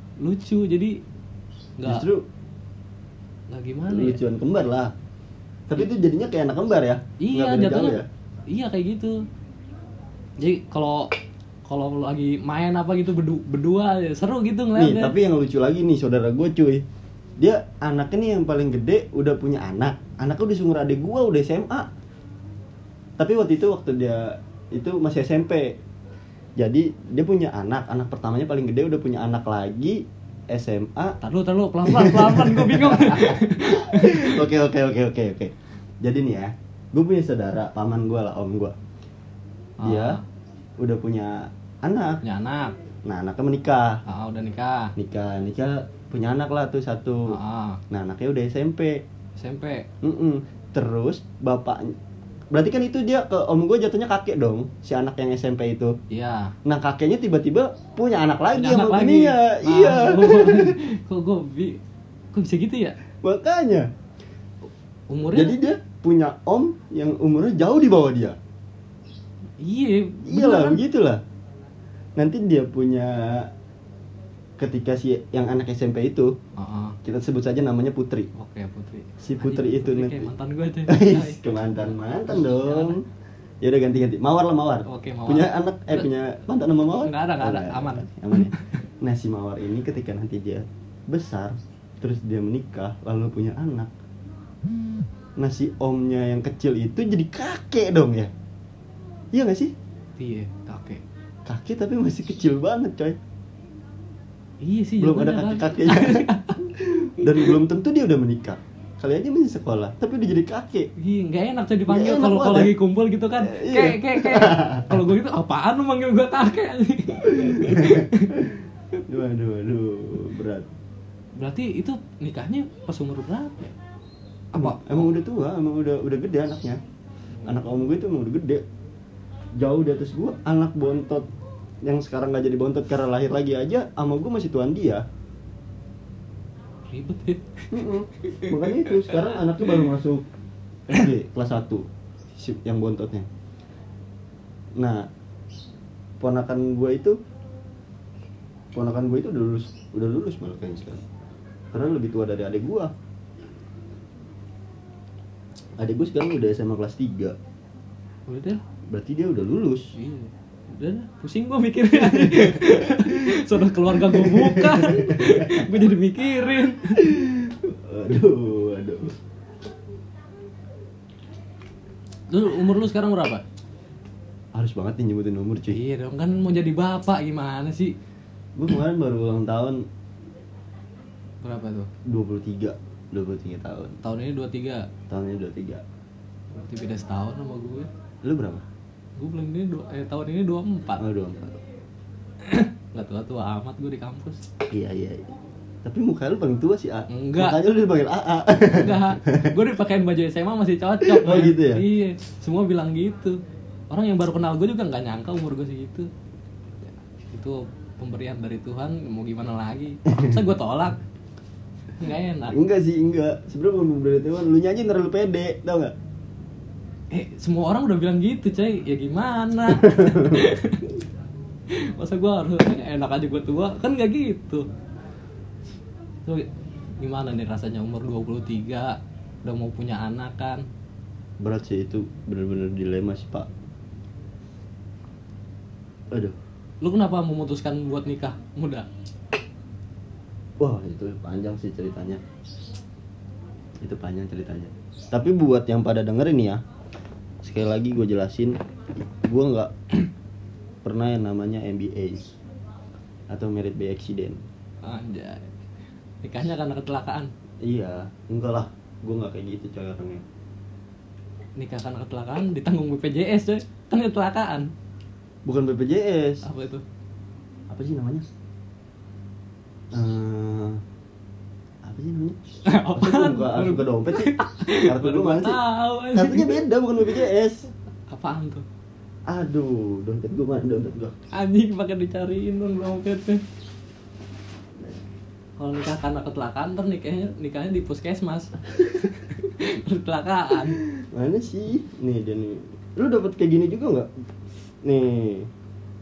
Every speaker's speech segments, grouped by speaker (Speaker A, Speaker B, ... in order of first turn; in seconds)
Speaker A: 0.2-1.0, 1.8-2.0, 3.5-4.2, 7.2-9.2, 10.4-11.1, 11.7-15.1, 31.2-34.4, 39.8-40.2, 42.2-42.7, 44.0-44.9, 47.3-47.8, 49.4-49.9, 56.1-56.5, 58.5-61.8, 62.3-63.0, 65.1-65.6, 69.6-70.8, 76.6-77.0, 78.3-81.4, 82.3-83.0, 84.8-86.1, 87.0-88.8, 100.2-101.0, 104.6-106.6, 107.2-107.5, 111.0-118.3, 121.4-123.7, 124.5-125.1, 127.4-127.7, 136.9-139.8, 158.3-158.6, 159.9-167.0, 172.3-173.4, 175.7-177.9, 181.4-181.9, 184.0-184.8, 186.5-187.9, 189.2-191.0, 192.4-194.4, 197.1-197.6, 198.7-203.4, 203.9-206.1, 207.3-211.0, 212.0-212.6, 217.1-221.0, 221.7-224.7, 227.0-230.6, 236.8-238.9, 254.8-255.5, 256.2-257.3, 261.6-264.7, 266.4-266.8, 272.6-276.6, 278.1-278.6, 281.3-283.4, 285.6-290.8
Speaker B: 1.8-2.2, 3.9-4.9, 5.7-8.1, 14.8-16.8, 17.4-21.9, 23.2-25.8, 26.6-31.2, 31.8-38.7, 39.8-40.2, 40.8-42.2, 43.0-44.0, 45.0-47.4, 47.9-49.0, 50.0-51.9, 52.5-56.0, 56.6-60.8, 63.2-63.9, 65.3-68.4, 70.2-71.2, 72.2-73.5, 74.6-76.3, 77.0-78.3, 79.2-80.3, 80.9-83.0, 83.6-93.9, 95.4-98.3, 99.3-99.7, 101.5-103.2, 105.0-110.9, 111.9-112.7, 113.4-115.0, 117.3-120.7, 124.5-126.8, 127.5-128.6, 129.6-131.3, 131.8-135.0, 137.7-140.2, 140.9-143.3, 144.8-145.1, 146.2-147.2, 148.7-151.0, 151.7-152.9, 155.8-157.3, 158.9-159.9, 161.9-165.7, 166.9-169.1, 174.5-175.8, 178.6-179.8, 182.1-184.0, 185.1-185.8, 188.2-188.6, 191.0-191.6, 194.7-195.3, 195.8-199.6, 201.0-201.8, 212.5-215.9, 219.8-220.4, 231.4-233.5, 240.6-242.2, 243.8-246.6, 247.4-249.7, 250.8-252.3, 253.3-254.4, 257.6-260.2, 265.4-266.4, 267.7-268.2, 269.9-270.8, 271.8-272.4, 272.9-275.6, 276.1-277.6, 279.3-281.1, 290.9-294.1, 294.8-295.5